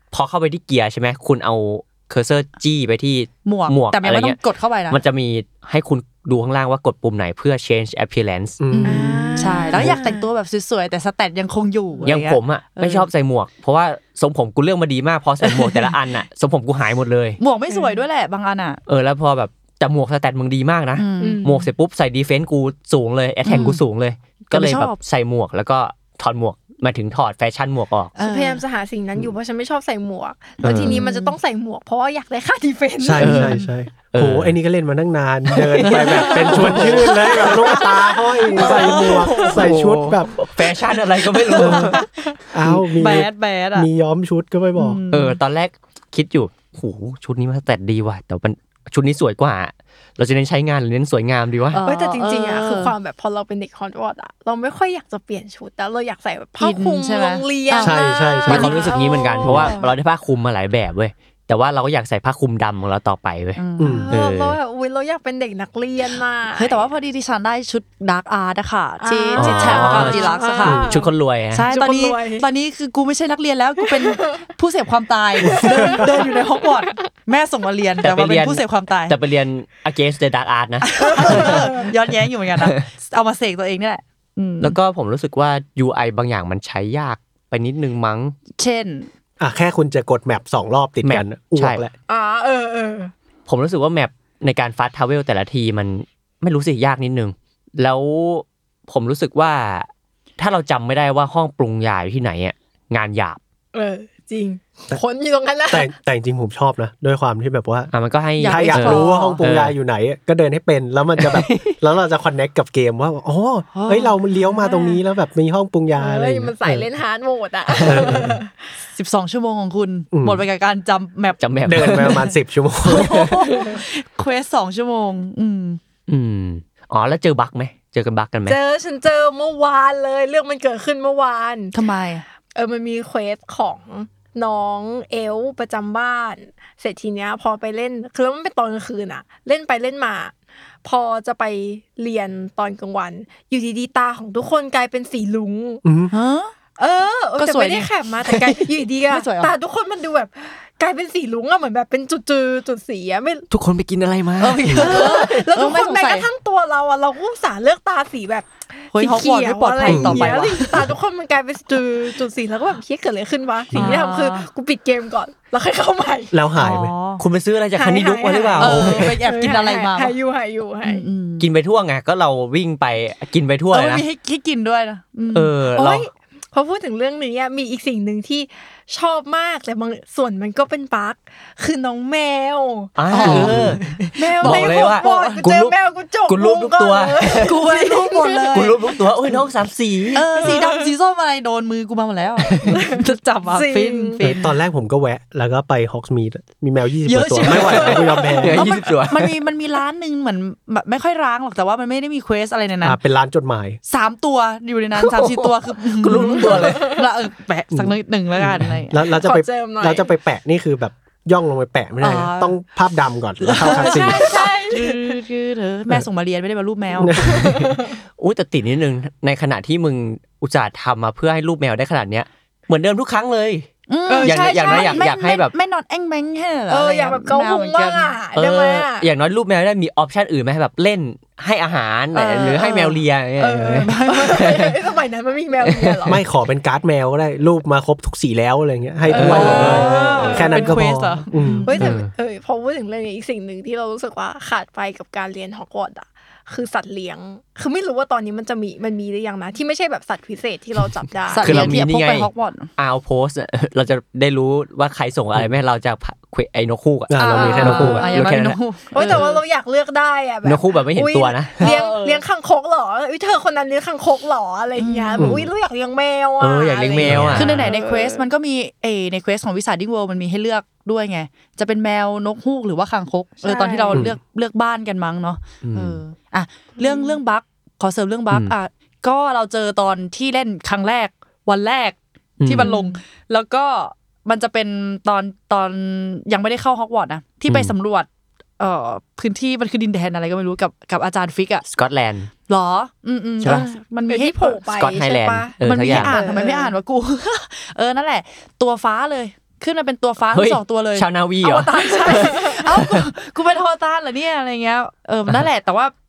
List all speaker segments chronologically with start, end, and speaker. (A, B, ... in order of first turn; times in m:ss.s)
0:00.1-0:04.4 A
0:03.4-0:05.0 B
0:04.9-0:08.6 A
0:08.6-0:10.0 C
0:08.7-0:13.0 B
0:08.8-0:10.2 D
0:12.0-0:17.4 A
0:15.4-0:15.9 B
0:17.4-0:18.8 B
0:17.7-0:18.0 D
0:18.9-0:28.1 A
0:21.0-0:21.4 B
0:21.2-0:21.7 D
0:23.4-0:23.8 B
0:24.5-0:25.0 B
0:28.2-0:28.6 B
0:28.2-0:33.4 D
0:30.6-0:31.0 A
0:30.7-0:31.3 B
0:33.0-0:40.4 C
0:33.2-0:33.6 A
0:33.2-0:33.7 B
0:34.1-0:34.6 A
0:35.5-0:37.7 A
0:35.9-0:37.6 B
0:36.3-0:39.5 D
0:38.5-0:39.6 B
0:39.4-0:42.0 A
0:41.5-0:42.0 B
0:41.6-0:42.0 C
0:41.6-0:42.3 D
0:42.5-0:45.0 C
0:42.9-0:43.9 B
0:44.8-0:45.4 B
0:45.1-0:51.8 A
0:51.7-0:52.9 B
0:51.8-0:59.9 D
0:56.6-0:58.9 B
0:57.8-0:58.9 C
0:58.4-1:04.6 A
0:59.4-0:59.8 C
1:03.6-1:04.1 B
1:03.8-1:04.1 C
1:04.1-1:06.8 D
1:06.5-1:10.9 B
1:09.0-1:11.1 D
1:09.4-1:11.7 A
1:10.6-1:10.9 C
1:11.5-1:19.2 B
1:11.7-1:12.4 D
1:13.9-1:14.4 D
1:15.4-1:16.4 D
1:18.0-1:21.8 A
1:20.8-1:24.8 B
1:21.0-1:21.9 D
1:24.6-1:28.4 A
1:28.6-1:29.1 B
1:29.4-1:31.9 C
1:31.0-1:31.8 A
1:32.1-1:33.1 D
1:33.5-1:43.4 A
1:43.7-1:45.9 D
1:45.7-1:56.8 C
1:47.9-1:49.7 A
1:48.4-1:49.4 B
1:48.9-1:49.4 D
1:51.2-1:51.8 A
1:53.7-1:54.9 B
1:56.0-1:58.5 D
1:57.7-1:58.2 A
1:57.8-1:58.4 C
1:58.9-2:05.8 B
2:00.1-2:00.4 C
2:01.4-2:02.3 A
2:01.6-2:03.3 C
2:03.0-2:03.3 A
2:03.5-2:03.8 D
2:06.1-2:08.6 A
2:08.4-2:11.7 D
2:11.7-2:12.2 B
2:12.5-2:25.8 D
2:25.8-2:26.1 C
2:26.1-2:26.5 B
2:26.8-2:33.4 D
2:27.4-2:29.5 B
2:33.5-2:35.2 A
2:34.4-2:36.3 B
2:34.8-2:46.4 D
2:38.9-2:40.9 B
2:39.8-2:40.4 C
2:43.7-2:44.5 B
2:46.3-2:46.9 C
2:46.6-2:47.2 B
2:47.2-2:49.2 A
2:47.8-2:51.0 D
2:48.6-2:50.1 B
2:50.8-2:51.5 B
2:51.4-2:54.0 A
2:53.7-2:55.5 B
2:55.3-2:56.0 A
2:55.8-3:03.4 D
3:03.0-3:05.7 A
3:03.1-3:05.4 B
3:03.2-3:03.8 C
3:04.2-3:08.6 D
3:06.2-3:07.5 A
3:07.4-3:08.8 B
3:08.5-3:10.5 A
3:10.1-3:14.6 B
3:10.2-3:10.9 D
3:12.5-3:12.8 A
3:12.7-3:14.2 D
3:14.2-3:18.6 C
3:17.0-3:23.0 B
3:17.7-3:19.3 A
3:17.8-3:18.6 D
3:22.8-3:23.8 C
3:23.9-3:29.0 B
3:25.0-3:27.0 A
3:26.2-3:27.1 D
3:27.7-3:34.3 C
3:29.2-3:30.1 D
3:32.0-3:32.6 B
3:33.4-3:37.2 B
3:33.6-3:35.2 D
3:37.0-3:37.6 C
3:37.1-3:38.0 D
3:38.2-3:43.7 A
3:43.9-3:48.1 B
3:44.1-3:45.1 D
3:44.2-3:45.5 A
3:46.7-3:49.0 D
3:48.3-3:54.8 A
3:52.1-3:56.2 D
3:53.8-3:54.4 B
3:55.6-3:56.1 A
3:56.0-4:01.7 C
3:59.1-4:00.8 D
3:59.1-4:00.0 B
3:59.1-4:00.5 A
4:00.5-4:01.9 B
4:01.6-4:11.7 D
4:01.8-4:02.1 A
4:11.3-4:12.7 B
4:11.4-4:19.3 A
4:17.1-4:18.0 C
4:17.2-4:18.2 D
4:17.2-4:19.4 B
4:18.9-4:28.2 D
4:20.4-4:21.7 A
4:21.6-4:22.2 B
4:24.8-4:25.4 B
4:25.2-4:25.5 C
4:26.4-4:27.7 A
4:27.0-4:27.7 C
4:27.3-4:48.1 B
4:33.4-4:34.1 D
4:35.6-4:36.0 A
4:36.8-4:37.2 D
4:42.4-4:42.7 A
4:42.6-4:43.0 D
4:47.5-4:47.7 A
4:48.6-4:51.6 B
4:51.6-4:52.3 A
4:52.5-4:54.6 B
4:53.4-4:53.7 A
4:53.4-4:56.7 D
4:54.7-4:56.1 A
4:55.6-5:01.1 B
5:00.3-5:03.0 A
5:01.4-5:02.7 D
5:02.0-5:05.9 B